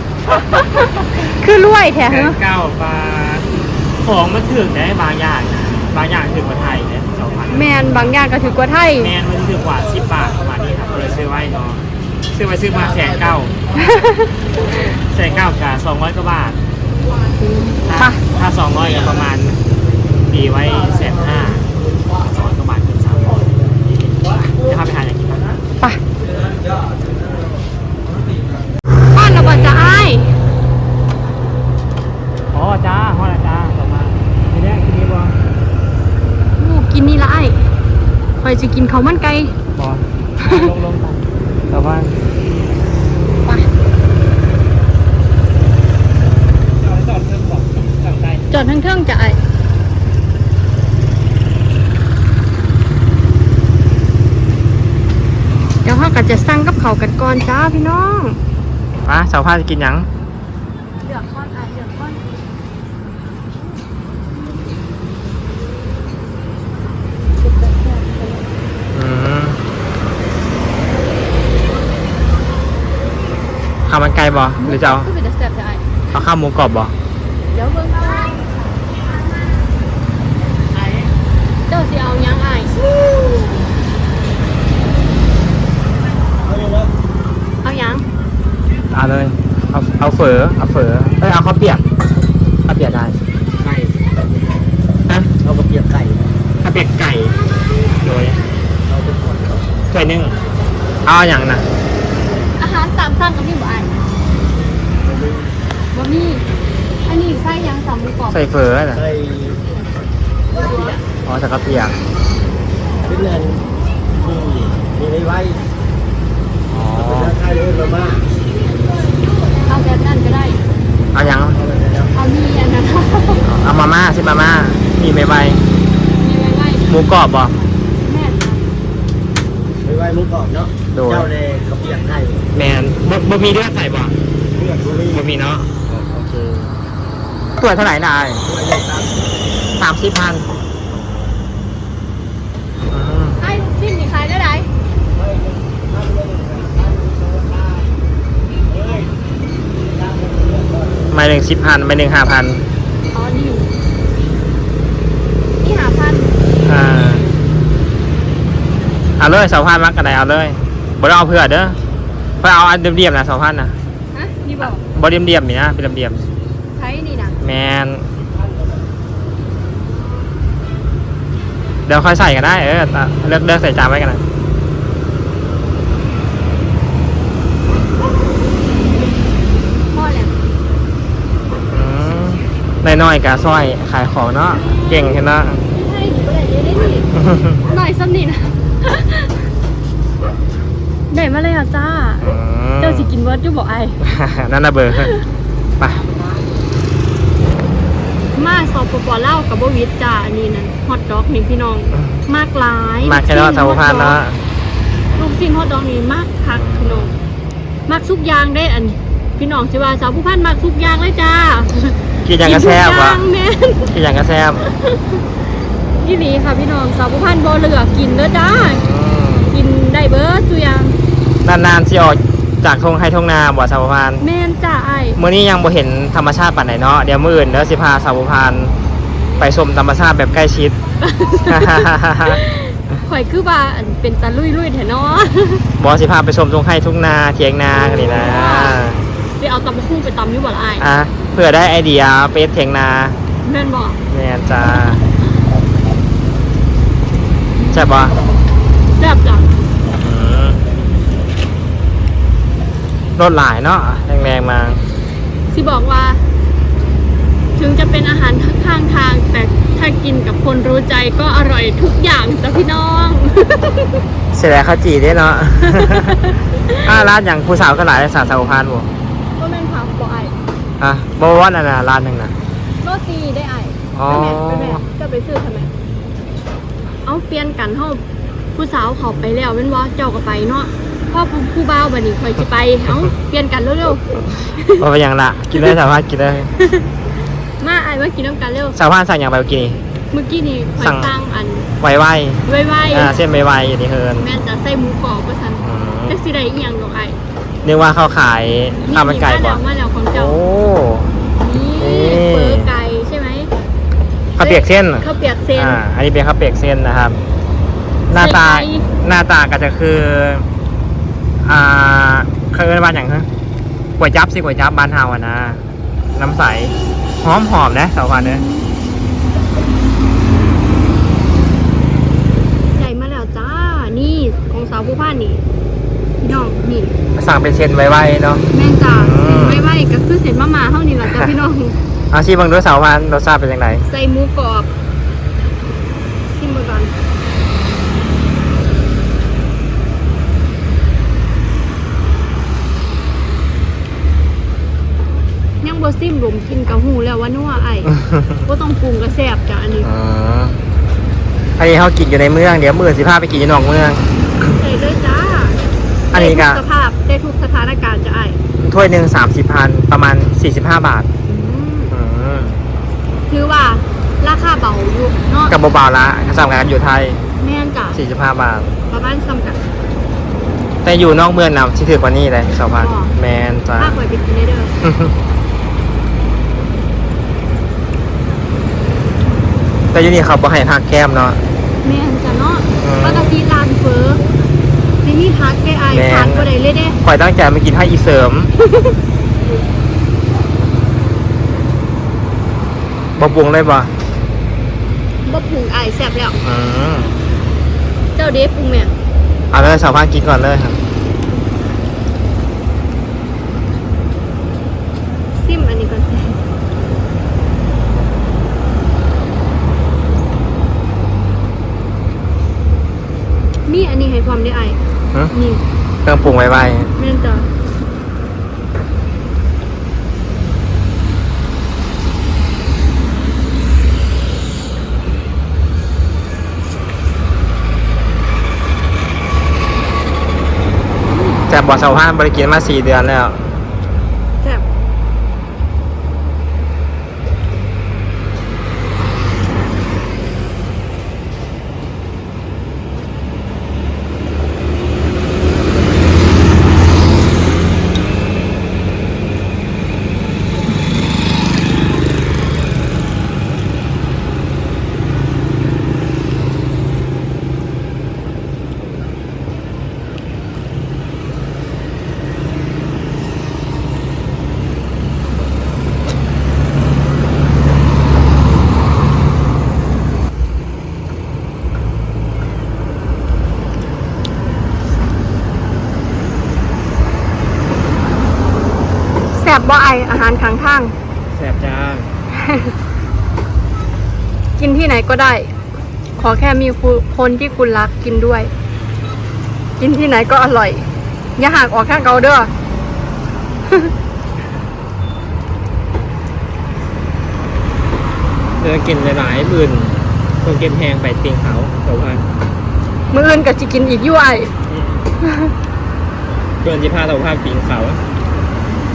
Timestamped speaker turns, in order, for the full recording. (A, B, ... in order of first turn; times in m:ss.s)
0:00.6-0:02.4 A
0:02.0-0:08.1 B
0:07.5-0:09.1 A
0:09.0-0:13.6 B
0:13.8-0:14.3 A
0:14.9-0:16.6 B
0:17.4-0:18.2 A
0:17.9-0:19.6 B
0:20.3-0:23.5 B
0:24.3-0:25.6 B
0:26.2-0:28.5 C
0:29.1-0:30.3 A
0:32.5-0:35.4 B
0:36.6-0:37.6 A
0:38.4-0:39.5 A
0:39.8-0:42.1 B
0:40.4-0:40.7 A
0:46.9-0:48.5 B
0:48.5-0:49.4 A
0:55.8-0:58.4 A
0:59.0-1:00.1 B
1:01.0-1:02.2 A
1:07.4-1:08.5 A
1:08.9-1:09.6 B
1:13.9-1:15.1 B
1:14.6-1:15.8 A
1:16.1-1:16.9 B
1:17.5-1:18.5 A
1:21.7-1:22.9 A
1:26.4-1:26.9 C
1:27.6-1:28.0 A
1:28.9-1:31.9 B
1:32.7-1:33.2 B
1:33.6-1:34.0 C
1:35.4-1:36.3 C
1:36.6-1:37.4 B
1:38.0-1:38.4 B
1:38.9-1:39.7 C
1:39.9-1:40.4 B
1:41.0-1:41.7 B
1:42.6-1:44.0 A
1:45.0-1:45.5 C
1:45.9-1:46.4 A
1:47.0-1:48.4 A
1:48.3-1:49.0 B
1:48.9-1:49.6 C
1:50.5-1:51.0 A
1:50.6-1:51.0 C
1:51.2-1:52.0 B
1:53.0-1:53.6 C
1:54.2-1:55.7 C
1:56.7-1:57.4 B
1:57.0-1:58.3 C
1:59.7-2:00.6 A
2:01.1-2:01.6 B
2:01.5-2:02.1 C
2:02.1-2:03.5 A
2:03.4-2:05.6 B
2:06.2-2:07.0 A
2:06.9-2:07.5 B
2:08.0-2:08.7 A
2:09.8-2:12.4 C
2:10.9-2:11.3 B
2:12.5-2:14.2 B
2:14.5-2:15.2 C
2:15.1-2:15.7 B
2:15.9-2:16.7 C
2:17.6-2:18.4 B
2:18.4-2:19.3 C
2:19.8-2:20.5 B
2:22.9-2:23.4 B
2:23.4-2:24.7 A
2:25.1-2:28.0 C
2:28.7-2:29.2 C
2:29.7-2:31.1 C
2:31.1-2:32.6 B
2:33.1-2:33.7 A
2:35.6-2:36.3 A
2:36.6-2:37.3 B
2:39.2-2:41.8 B
2:42.4-2:43.8 B
2:44.1-2:44.8 A
2:44.6-2:46.2 B
2:46.8-2:47.4 A
2:47.4-2:48.1 B
2:51.9-2:54.2 B
2:59.9-3:00.4 A
3:01.7-3:05.6 B
3:04.5-3:07.1 A
3:07.1-3:07.6 B
3:07.7-3:09.3 A
3:11.1-3:12.3 A
3:12.2-3:13.1 B
3:12.8-3:14.0 A
3:14.0-3:15.1 B
3:14.9-3:15.2 A
3:15.8-3:16.0 B
3:18.4-3:24.2 A
3:21.9-3:22.2 B
3:23.0-3:24.4 B
3:25.1-3:27.1 A
3:26.5-3:27.2 B
3:27.9-3:34.0 A
3:32.2-3:33.2 B
3:33.9-3:34.7 B
3:34.7-3:35.2 A
3:36.0-3:38.8 A
3:38.4-3:39.5 B
3:39.5-3:41.0 A
3:41.4-3:44.2 B
3:44.2-3:45.2 A
3:45.2-3:48.7 B
3:49.4-3:50.8 B
3:51.0-3:55.7 A
3:51.5-3:52.4 B
3:55.8-3:59.0 B
3:57.7-3:58.8 A
3:59.4-4:00.9 A
4:00.8-4:03.2 B
4:03.5-4:04.0 A
4:04.1-4:05.0 B
4:07.7-4:08.2 B
4:09.0-4:09.5 A
4:09.9-4:10.6 B
4:13.2-4:14.9 B
4:15.5-4:16.2 A
4:17.6-4:24.0 A
4:24.3-4:26.2 B
4:25.6-4:27.1 A
4:26.8-4:28.9 B
4:29.4-4:30.4 A
4:30.8-4:32.4 B
4:32.8-4:35.7 A
4:33.9-4:34.8 B
4:37.0-4:38.0 A
4:38.6-4:44.8 A
4:44.8-4:46.5 B
4:46.6-4:46.9 A
4:47.6-4:48.8 A
4:48.8-4:49.8 B
4:50.1-4:51.7 A
4:50.8-4:51.1 B
4:51.8-4:54.3 B
4:52.4-4:53.2 A
4:54.2-4:57.2 A
4:55.6-4:56.2 B
4:57.6-4:59.6 B
4:58.9-5:00.4 A
5:00.1-5:01.1 B
5:01.4-5:03.5 A
5:01.8-5:02.7 B
5:04.4-5:07.2 B
5:04.4-5:05.8 A
5:08.1-5:10.5 B
5:08.1-5:08.9 A
5:11.4-5:13.3 B
5:14.0-5:15.6 B
5:16.2-5:18.4 B
5:22.8-5:25.4 A
5:26.2-5:27.0 A
5:27.2-5:29.7 B
5:28.5-5:31.8 A
5:32.1-5:33.8 B
5:33.7-5:34.7 A
5:36.3-5:36.9 A
5:45.6-5:49.9 A
5:47.9-5:48.4 B
5:49.8-5:50.6 B
5:51.6-5:54.1 B
5:54.4-5:55.6 A
5:56.1-5:56.6 B
5:56.1-5:58.4 A
5:58.6-6:01.1 B
6:01.3-6:02.0 A
6:01.9-6:02.6 B
6:03.3-6:05.6 A
6:05.5-6:07.2 B
6:07.4-6:08.0 A
6:07.9-6:08.7 B
6:08.9-6:09.6 A
6:10.8-6:14.0 B
6:12.8-6:13.1 A
6:13.8-6:14.7 A
6:14.8-6:15.1 B
6:19.9-6:21.4 B
6:21.8-6:24.2 A
6:22.8-6:23.3 B
6:25.0-6:27.0 A
6:25.9-6:26.5 B
6:27.0-6:28.5 B
6:28.6-6:29.0 A
6:33.2-6:33.9 B
6:35.3-6:36.4 A
6:36.4-6:37.2 B
6:38.2-6:38.9 A
6:39.5-6:40.8 B
6:45.4-6:46.4 A
6:53.7-6:54.8 A
6:55.3-6:55.6 A
6:56.0-6:56.9 B
6:57.0-6:57.5 A
7:11.1-7:11.4 A
7:11.5-7:13.4 B
7:59.3-8:00.9 A
8:01.3-8:02.1 B
8:02.3-8:02.7 A
8:04.6-8:05.5 A
8:06.2-8:08.5 A
8:09.8-8:10.9 A
8:11.4-8:12.5 A
8:18.6-8:22.2 B
8:23.1-8:24.5 A
8:24.7-8:25.0 B
8:25.2-8:25.5 A
8:26.6-8:28.0 B